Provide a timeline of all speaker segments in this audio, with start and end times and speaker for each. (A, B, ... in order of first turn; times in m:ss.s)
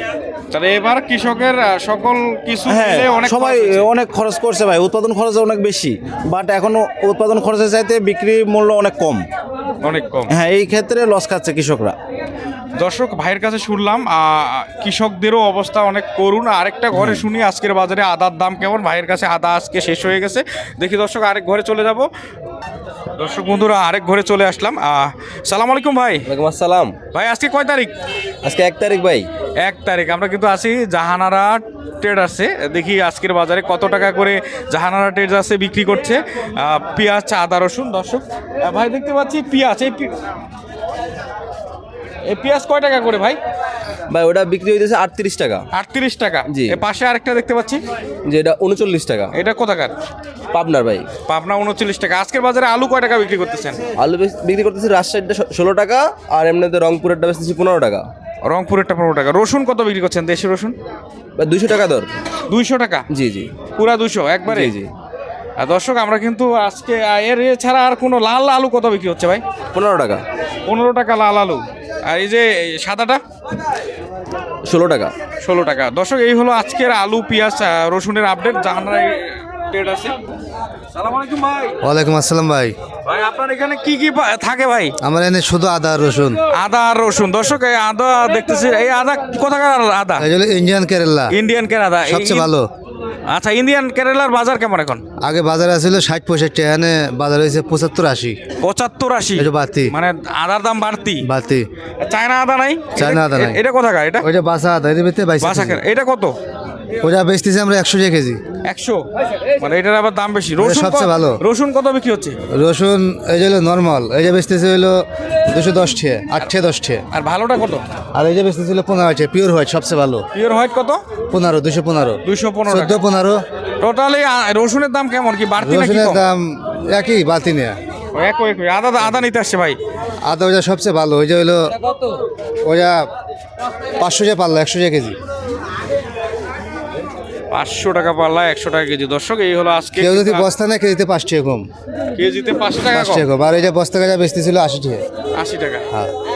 0:00.5-0:03.9 A
0:02.7-0:09.3 B
0:09.8-0:10.3 A
0:10.3-0:12.0 B
0:12.8-0:22.1 A
0:17.0-0:17.2 B
0:23.2-0:26.3 A
0:26.3-0:27.0 C
0:27.1-0:27.9 A
0:28.4-0:29.3 C
0:29.6-0:40.2 A
0:42.2-0:43.4 A
0:44.1-0:45.7 C
0:45.7-0:47.8 A
0:46.5-0:46.8 C
0:48.2-0:49.3 C
0:49.3-0:49.9 A
0:50.5-0:51.1 C
0:51.3-0:53.8 A
0:54.0-0:58.1 C
0:58.4-1:00.8 A
1:01.4-1:02.1 C
1:02.5-1:03.1 A
1:03.1-1:03.5 C
1:03.7-1:04.8 A
1:04.5-1:04.9 C
1:05.6-1:09.4 A
1:09.7-1:10.2 C
1:10.6-1:13.2 A
1:14.6-1:15.2 C
1:15.4-1:20.2 A
1:20.9-1:21.8 A
1:21.8-1:22.8 D
1:23.0-1:25.0 A
1:25.0-1:26.4 D
1:26.5-1:30.2 A
1:30.2-1:31.3 D
1:31.3-1:32.5 A
1:32.1-1:32.7 D
1:33.3-1:35.0 A
1:35.2-1:38.4 D
1:38.6-1:41.2 A
1:39.4-1:39.9 D
1:41.2-1:41.7 D
1:42.0-1:44.3 A
1:43.0-1:43.6 D
1:44.2-1:45.8 D
1:45.4-1:46.4 A
1:47.0-1:48.4 D
1:48.6-1:52.4 A
1:50.6-1:51.4 D
1:52.5-1:57.0 D
1:57.1-1:57.8 A
1:58.1-2:00.2 D
2:00.3-2:01.0 A
2:01.3-2:03.4 D
2:02.2-2:03.0 A
2:03.8-2:06.3 A
2:05.6-2:07.8 D
2:08.1-2:09.8 A
2:10.2-2:11.8 D
2:12.6-2:13.0 D
2:14.0-2:15.2 D
2:17.5-2:20.5 A
2:20.0-2:21.7 D
2:22.1-2:23.2 A
2:22.9-2:25.0 D
2:25.4-2:25.9 A